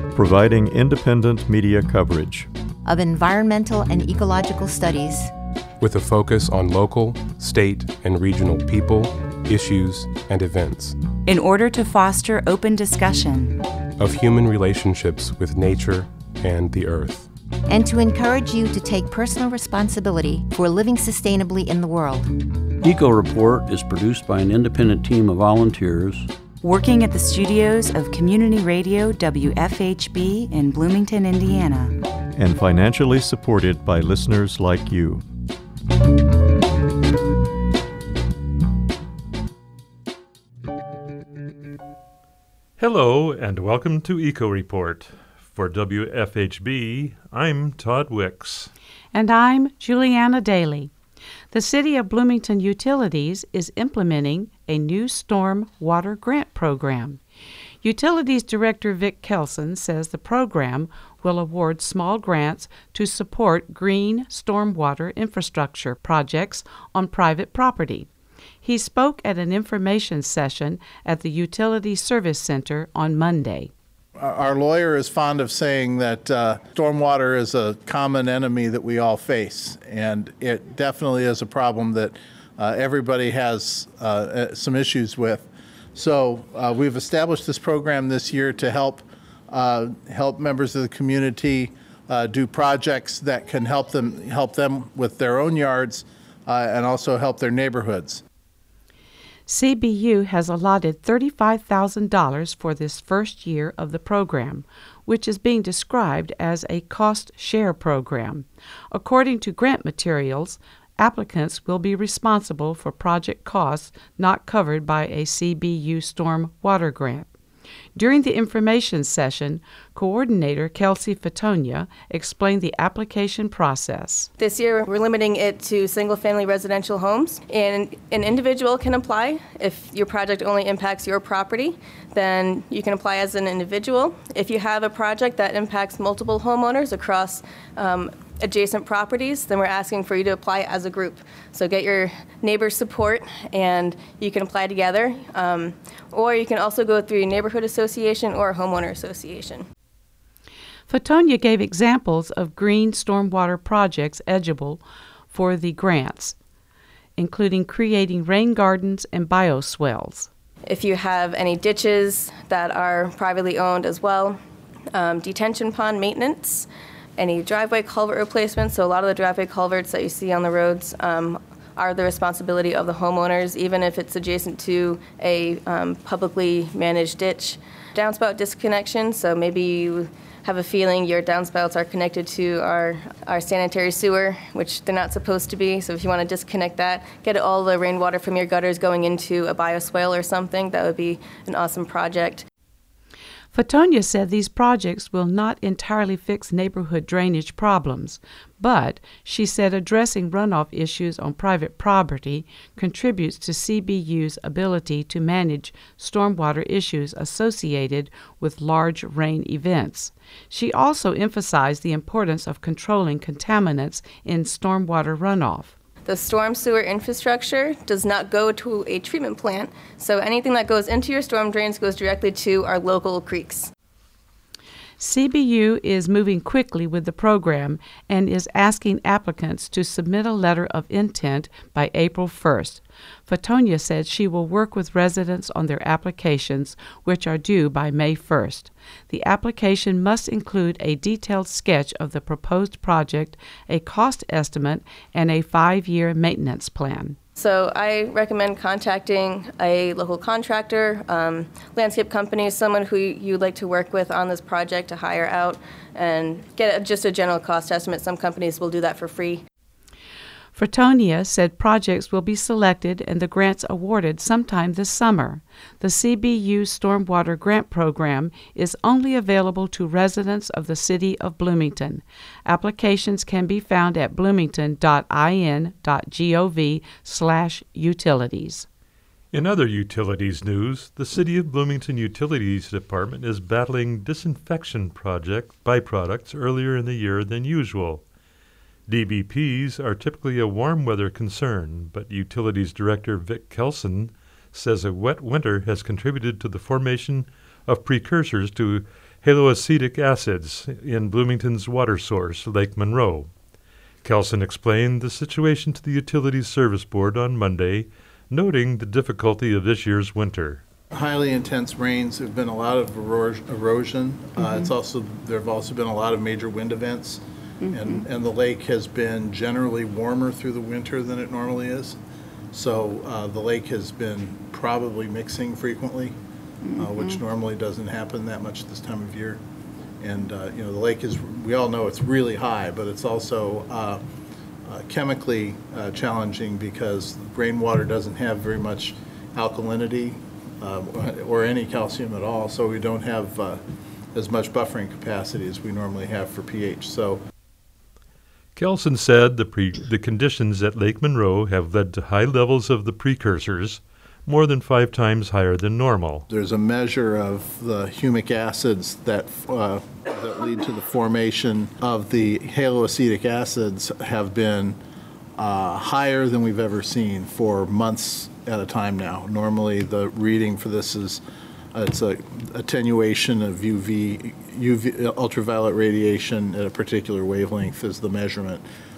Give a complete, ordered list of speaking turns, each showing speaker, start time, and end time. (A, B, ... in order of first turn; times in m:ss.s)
0:00.1-0:02.5 A
0:02.8-0:05.3 B
0:05.8-0:11.0 C
0:11.2-0:13.6 D
0:14.0-0:17.3 C
0:17.7-0:22.3 B
0:22.8-0:26.3 E
0:26.6-0:32.0 D
0:32.3-0:35.2 A
0:42.8-0:48.7 F
0:49.1-0:50.9 G
0:51.5-0:57.2 G
0:57.8-1:08.1 G
1:08.6-1:13.7 G
1:14.2-1:38.2 H
1:39.5-1:57.3 G
1:57.9-2:04.3 G
2:04.4-2:29.6 I
2:30.9-2:36.4 G
2:37.2-2:40.3 G
2:40.7-2:44.4 I
2:44.9-3:12.4 I
3:13.5-3:35.7 G
3:36.0-3:43.7 I
3:45.0-4:07.2 G
4:07.4-4:19.4 I
4:20.5-4:38.7 G
4:39.3-4:48.0 F
4:48.9-5:03.3 F
5:04.0-5:10.6 F
5:10.9-5:22.0 H
5:17.6-5:18.0 D
5:22.5-5:26.2 H
5:26.6-5:27.2 D
5:26.8-5:29.4 H
5:30.0-5:34.0 H
5:34.6-5:43.6 H
5:44.1-5:47.2 H
5:48.6-5:56.2 F
5:56.3-6:04.8 H
6:05.4-6:11.2 H
6:11.7-6:18.6 H